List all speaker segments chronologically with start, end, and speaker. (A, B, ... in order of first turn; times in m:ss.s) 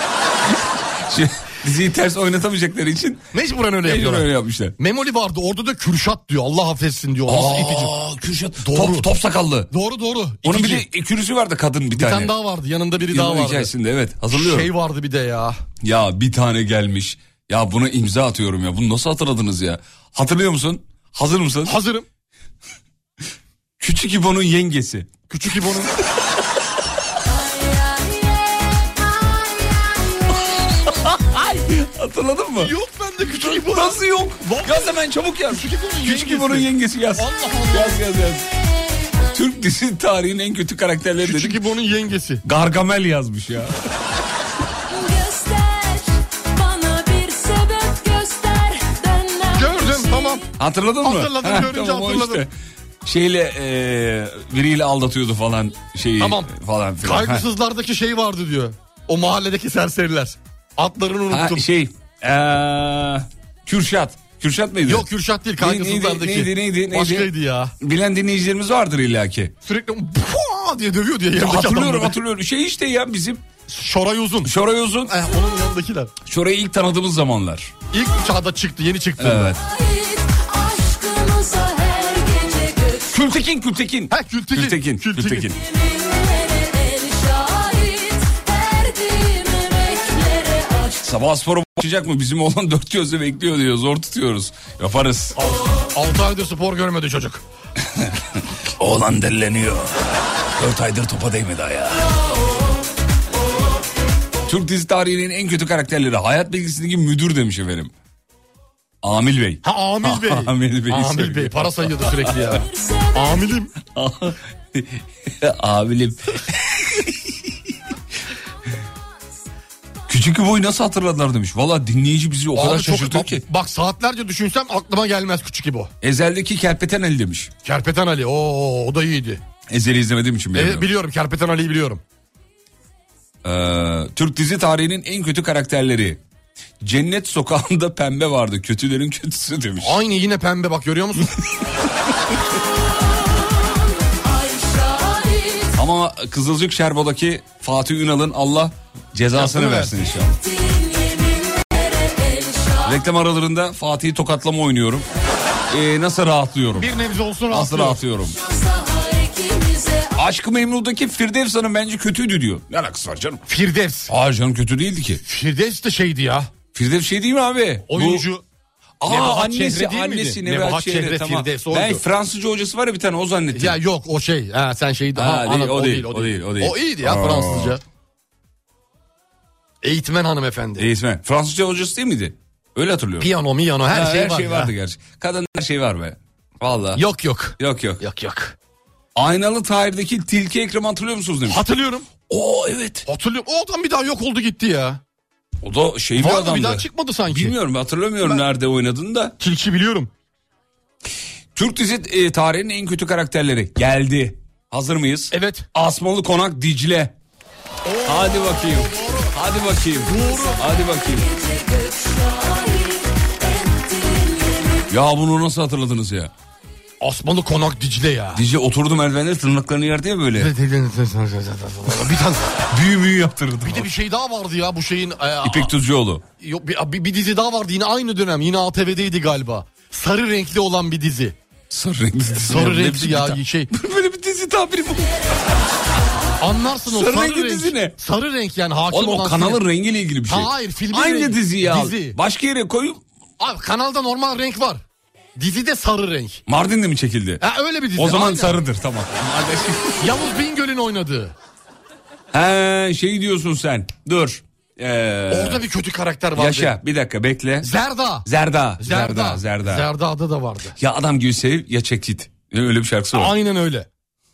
0:01.0-0:03.2 A
0:03.3-0:07.9 B
0:03.8-0:04.8 A
0:07.3-0:09.7 A
0:08.6-0:09.1 B
0:09.7-0:10.8 B
0:10.4-0:12.3 A
0:12.0-0:13.7 B
0:13.1-0:14.7 A
0:14.3-0:15.6 B
0:15.8-0:21.8 A
0:21.6-0:22.0 B
0:23.8-0:25.1 A
0:25.3-0:26.0 B
0:30.7-0:32.7 A
0:32.6-0:35.0 B
0:33.4-0:38.5 A
0:35.5-0:38.0 B
0:39.3-0:41.6 A
0:41.2-0:42.4 B
0:42.4-0:43.8 A
0:45.0-0:50.3 C
0:49.5-0:50.5 B
0:50.6-0:52.5 A
0:51.0-0:52.4 B
0:53.0-0:57.5 A
0:56.2-1:01.6 B
1:01.3-1:05.1 A
1:04.8-1:07.7 B
1:05.6-1:09.5 A
1:09.6-1:12.2 B
1:11.4-1:13.4 A
1:13.7-1:14.5 B
1:14.4-1:15.2 A
1:15.1-1:16.1 B
1:16.2-1:17.7 A
1:17.9-1:19.6 B
1:19.2-1:19.6 A
1:23.1-1:25.6 A
1:24.1-1:25.6 B
1:31.0-1:35.4 A
1:35.4-1:37.4 B
1:38.8-1:42.1 A
1:44.5-1:47.9 A
1:49.0-1:52.6 A
1:49.6-1:53.7 B
1:53.9-1:57.4 A
2:00.1-2:03.4 A
2:02.5-2:05.9 B
2:06.0-2:07.5 A
2:07.6-2:09.4 B
2:09.7-2:10.9 A
2:10.5-2:12.0 B
2:13.4-2:16.2 A
2:16.8-2:20.0 A
2:19.8-2:21.3 B
2:25.7-2:30.4 A
2:29.3-2:30.0 B
2:32.8-2:35.1 A
2:35.7-2:36.9 A
2:36.8-2:38.0 B
2:37.5-2:38.4 A
2:40.1-2:43.4 A
2:43.5-2:44.1 B
2:44.1-2:45.2 A
2:45.2-2:46.5 B
2:46.8-2:48.3 A
2:47.9-2:48.4 B
2:49.0-2:53.8 A
2:49.1-2:52.0 B
2:53.5-2:57.8 B
2:55.2-2:57.8 A
2:59.8-3:00.9 B
3:00.8-3:03.3 A
3:03.2-3:04.7 B
3:03.9-3:07.0 A
3:07.0-3:08.6 B
3:07.6-3:08.0 A
3:09.2-3:11.6 A
3:11.5-3:12.1 B
3:12.3-3:13.1 A
3:13.1-3:15.0 B
3:15.6-3:19.4 A
3:16.2-3:17.6 B
3:19.4-3:20.1 B
3:21.6-3:27.1 A
3:25.3-3:25.7 B
3:27.8-3:29.3 B
3:28.0-3:31.3 A
3:30.1-3:30.6 B
3:34.9-3:36.3 A
3:37.0-3:38.4 B
3:38.3-3:40.5 A
3:40.4-3:42.6 B
3:42.7-3:43.9 A
3:43.6-3:45.7 B
3:45.4-3:46.2 A
3:46.4-3:51.4 B
3:51.7-3:55.2 A
3:52.4-3:53.7 B
3:56.4-3:59.6 B
3:56.9-3:58.0 A
3:58.9-4:03.0 A
4:00.3-4:02.2 B
4:03.4-4:04.8 B
4:05.4-4:06.4 B
4:06.5-4:07.4 A
4:07.4-4:08.6 B
4:08.0-4:10.1 A
4:10.0-4:11.4 B
4:12.3-4:15.6 A
4:15.3-4:16.7 B
4:16.4-4:17.7 A
4:17.6-4:18.3 B
4:18.2-4:19.9 A
4:18.8-4:20.8 B
4:20.8-4:23.3 A
4:23.1-4:23.9 B